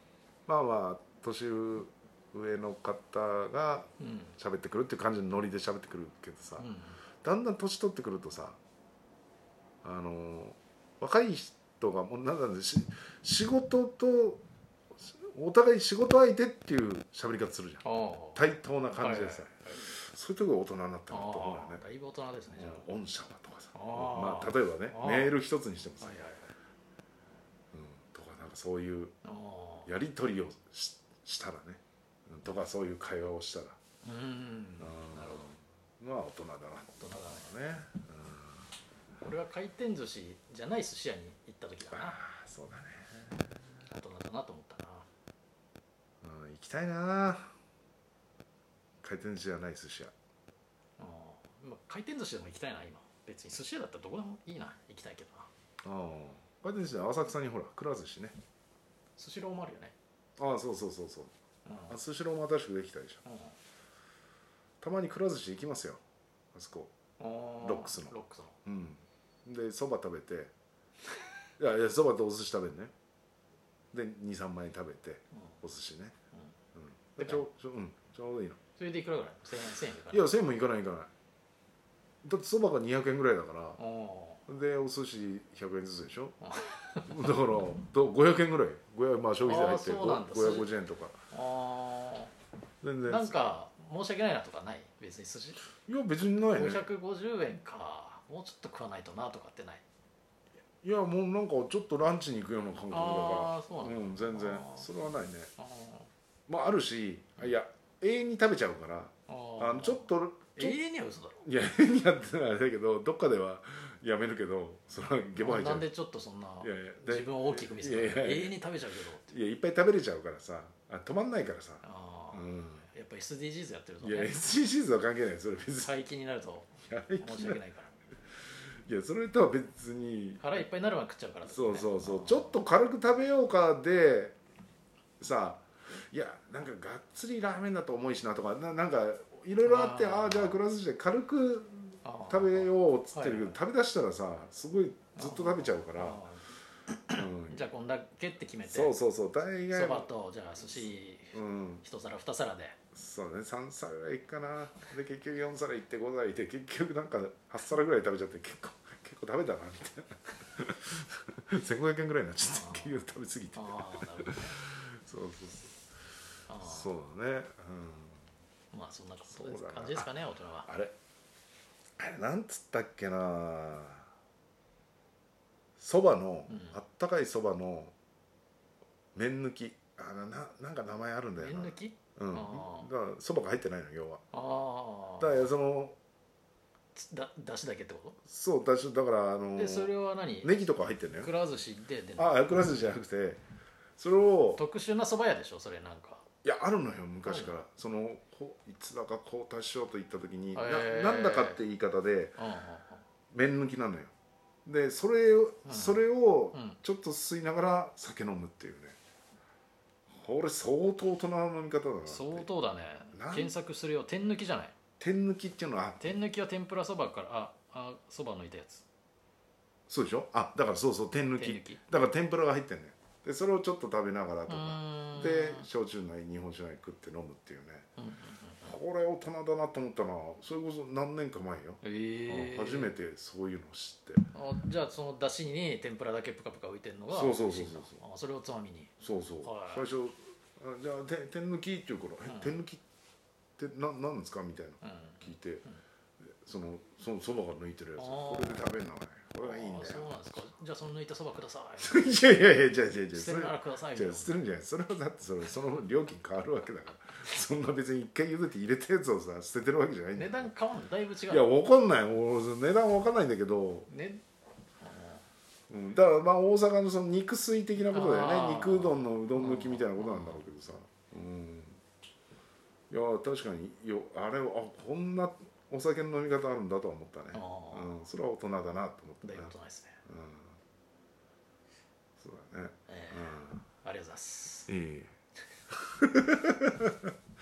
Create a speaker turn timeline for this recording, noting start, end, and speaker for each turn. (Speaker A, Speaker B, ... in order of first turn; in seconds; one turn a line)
Speaker A: 0.5-6.7
Speaker B: 4.0-4.4
Speaker B: 6.6-7.0
Speaker A: 7.2-8.6
Speaker A: 9.8-14.4
Speaker A: 15.0-21.8
Speaker B: 17.8-18.4
Speaker B: 19.0-19.8
Speaker B: 21.1-22.9
Speaker A: 22.6-26.3
Speaker B: 23.7-25.4
Speaker B: 26.0-26.5
Speaker A: 27.7-29.1
Speaker B: 29.2-29.9
Speaker A: 29.9-33.8
Speaker B: 34.0-35.5
Speaker A: 34.8-38.7
Speaker B: 37.0-37.5
Speaker B: 39.2-42.2
Speaker A: 41.9-43.7
Speaker B: 43.9-45.1
Speaker A: 46.2-47.5
Speaker A: 49.0-50.1
Speaker B: 51.0-55.5
Speaker A: 55.8-58.4
Speaker B: 59.2-60.0
Speaker A: 60.4-61.3
Speaker B: 61.7-62.0
Speaker A: 61.9-63.2
Speaker B: 63.2-63.5
Speaker A: 64.8-66.0
Speaker A: 66.5-66.9
Speaker B: 67.2-68.6
Speaker A: 67.6-70.5
Speaker A: 71.6-72.9
Speaker A: 73.9-76.2
Speaker A: 76.8-78.6
Speaker B: 77.2-77.5
Speaker B: 78.8-80.4
Speaker A: 80.1-81.1
Speaker A: 82.2-83.8
Speaker B: 83.8-84.4
Speaker A: 84.5-86.4
Speaker B: 86.4-87.2
Speaker A: 87.1-91.2
Speaker B: 89.4-90.7
Speaker B: 91.3-92.3
Speaker A: 92.8-93.4
Speaker B: 93.0-95.6
Speaker A: 95.9-96.9
Speaker B: 96.5-99.8
Speaker A: 100.8-105.5
Speaker B: 102.9-104.9
Speaker B: 105.6-106.1
Speaker A: 106.5-110.8
Speaker B: 109.3-111.5
Speaker A: 111.4-115.9
Speaker B: 115.4-119.4
Speaker A: 116.6-118.6
Speaker A: 119.2-122.9
Speaker B: 121.8-124.3
Speaker A: 124.0-126.0
Speaker B: 125.8-128.0
Speaker A: 126.9-127.6
Speaker A: 128.8-130.6
Speaker B: 130.4-132.6
Speaker A: 131.4-134.4
Speaker A: 135.2-146.2
Speaker B: 139.6-140.6
Speaker B: 142.0-143.6
Speaker B: 145.2-149.0
Speaker A: 147.1-147.7
Speaker A: 148.6-150.1
Speaker B: 149.7-152.8
Speaker A: 150.7-151.8
Speaker A: 152.9-165.8
Speaker B: 162.4-163.0
Speaker B: 163.6-164.6
Speaker B: 166.5-166.9
Speaker A: 166.6-168.2
Speaker B: 168.7-170.7
Speaker A: 169.3-170.1
Speaker A: 170.7-171.0
Speaker A: 172.0-174.1
Speaker A: 175.8-177.9
Speaker B: 176.5-176.8
Speaker A: 179.2-184.2
Speaker B: 181.4-182.9
Speaker B: 184.3-185.5
Speaker A: 185.2-186.0
Speaker B: 186.9-188.2
Speaker A: 188.2-191.3
Speaker B: 189.6-190.6
Speaker B: 191.2-192.4
Speaker A: 192.2-193.4
Speaker A: 194.0-194.6
Speaker B: 194.6-196.3
Speaker A: 196.4-202.4
Speaker B: 197.2-197.6
Speaker B: 200.5-201.6
Speaker B: 202.4-203.0
Speaker A: 203.3-204.1
Speaker A: 204.7-209.0
Speaker B: 205.7-206.0
Speaker B: 206.5-206.8
Speaker A: 210.1-212.5
Speaker B: 212.1-214.8
Speaker A: 213.1-213.5
Speaker A: 215.0-216.0
Speaker B: 216.0-218.8
Speaker A: 219.9-227.9
Speaker B: 221.4-221.8
Speaker B: 224.5-225.7
Speaker B: 228.0-228.7
Speaker A: 228.6-234.3
Speaker B: 231.8-232.9
Speaker B: 234.3-239.9
Speaker A: 237.1-238.0
Speaker A: 239.0-242.8
Speaker B: 242.2-242.5
Speaker A: 243.6-245.7
Speaker B: 244.8-245.8
Speaker A: 246.4-250.4
Speaker B: 248.0-248.7
Speaker B: 249.4-252.2
Speaker A: 251.8-260.5
Speaker B: 253.1-254.3
Speaker B: 260.1-261.5
Speaker A: 261.3-263.9
Speaker B: 263.9-264.2
Speaker B: 264.8-265.2
Speaker A: 265.7-271.8
Speaker B: 267.9-270.4
Speaker A: 272.9-279.5
Speaker B: 277.3-277.9
Speaker B: 279.2-280.0
Speaker A: 280.1-280.6
Speaker A: 282.2-283.6
Speaker B: 282.9-284.7
Speaker A: 284.7-285.2
Speaker A: 285.7-287.1